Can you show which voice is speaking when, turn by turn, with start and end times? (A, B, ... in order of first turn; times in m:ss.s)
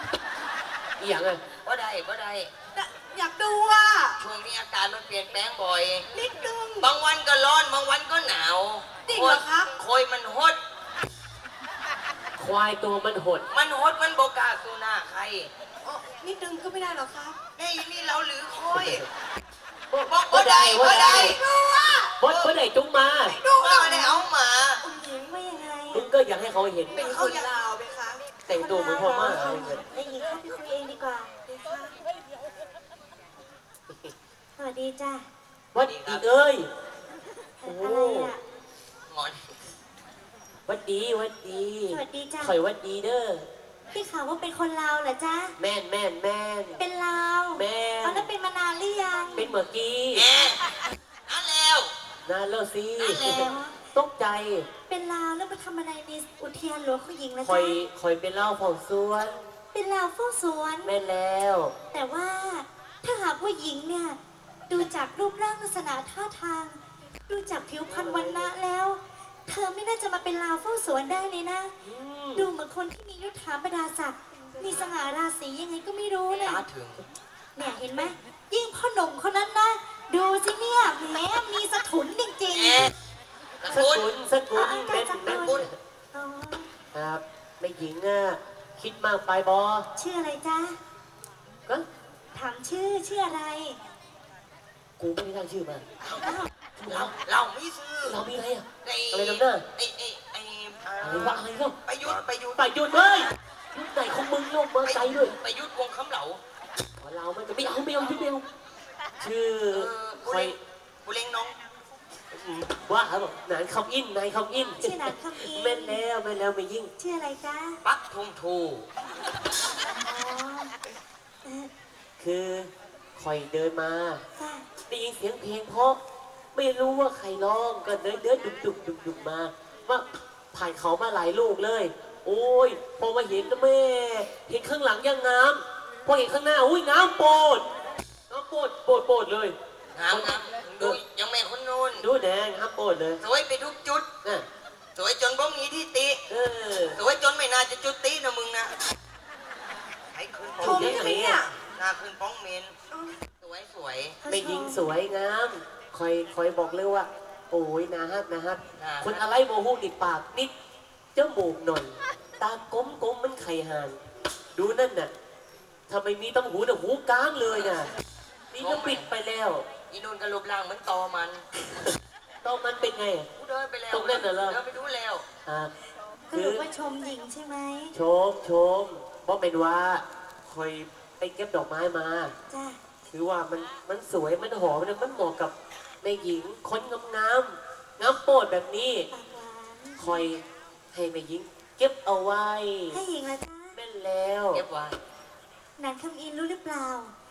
0:01.0-0:01.4 A
0:01.6-0:02.5 B
0:02.8-0:04.2 C
0:04.2-0:06.1 B
0:06.1-0:06.9 C
0:06.8-0:10.6 B
0:09.1-0:09.7 C
0:12.4-0:13.5 A
0:13.5-0:15.5 B
0:15.8-0:17.4 C
0:17.6-0:19.0 B
0:18.7-0:19.1 A
0:19.9-0:21.4 A
0:20.1-0:21.5 B
0:20.8-0:22.1 C
0:22.2-0:23.4 A
0:22.3-0:22.5 B
0:23.2-0:24.2 C
0:23.5-0:24.8 B
0:24.8-0:25.3 C
0:25.0-0:26.0 D
0:25.9-0:27.1 A
0:27.0-0:27.6 C
0:27.0-0:28.2 B
0:28.5-0:29.8 A
0:28.5-0:31.3 D
0:31.5-0:31.9 C
0:34.6-0:35.3 D
0:35.7-0:36.7 A
0:35.8-0:36.2 B
0:37.6-0:38.4 D
0:37.6-0:38.3 A
0:39.1-0:39.5 B
0:40.7-0:43.5 A
0:41.9-0:42.6 D
0:43.9-0:45.6 D
0:45.6-0:46.8 A
0:46.8-0:49.5 D
0:47.5-0:48.3 A
0:49.4-0:50.3 A
0:50.1-0:50.7 B
0:51.3-0:51.9 B
0:52.3-0:54.7 A
0:53.0-0:53.6 B
0:53.1-0:53.8 D
0:54.9-0:57.8 D
0:57.4-0:59.4 A
0:59.7-1:00.9 D
1:00.8-1:01.8 A
1:01.9-1:11.7 D
1:07.9-1:08.5 A
1:11.8-1:12.5 A
1:12.4-1:16.6 D
1:16.4-1:17.0 B
1:17.6-1:22.9 D
1:22.5-1:22.9 B
1:23.6-1:24.1 B
1:23.7-1:25.8 A
1:24.5-1:26.7 D
1:26.9-1:29.9 A
1:30.0-1:30.8 D
1:32.3-1:33.8 D
1:35.0-1:35.9 A
1:36.2-1:36.5 D
1:36.8-1:37.1 A
1:36.8-1:38.2 B
1:38.0-1:39.6 A
1:38.8-1:42.6 B
1:41.0-1:41.8 A
1:42.6-1:45.3 A
1:44.8-1:46.4 B
1:47.0-1:48.4 A
1:49.2-1:50.6 A
1:49.7-1:51.6 B
1:52.3-1:56.9 A
1:54.8-1:56.0 D
1:57.0-1:57.8 D
1:57.8-1:58.9 B
2:00.0-2:00.7 D
2:01.4-2:01.7 D
2:02.2-2:04.2 A
2:04.4-2:04.7 D
2:04.9-2:06.0 A
2:06.5-2:17.7 A
2:18.3-2:19.6 A
2:20.0-2:22.0 B
2:20.1-2:21.0 A
2:22.0-2:23.2 A
2:23.2-2:24.1 B
2:25.0-2:26.2 B
2:26.3-2:27.0 A
2:27.0-2:28.7 B
2:30.1-2:31.2 B
2:30.6-2:31.4 A
2:30.6-2:31.6 C
2:31.7-2:32.7 B
2:32.9-2:33.2 C
2:33.4-2:34.2 B
2:34.2-2:34.9 D
2:34.3-2:40.5 A
2:38.8-2:39.1 B
2:41.2-2:44.0 A
2:44.6-2:45.1 A
2:45.9-2:47.9 A
2:48.5-2:49.7 A
2:48.6-2:49.1 B
2:49.9-2:51.4 B
2:51.7-2:51.9 A
2:52.4-2:53.3 A
2:53.4-2:55.2 B
2:53.9-2:54.6 A
2:55.4-2:55.7 A
2:56.3-2:57.9 D
2:56.3-2:56.6 A
2:57.9-3:02.3 A
3:02.5-3:02.8 D
3:03.1-3:09.1 A
3:09.1-3:10.2 D
3:10.0-3:13.0 A
3:12.9-3:13.8 D
3:13.8-3:14.6 A
3:14.5-3:15.0 B
3:15.8-3:17.1 D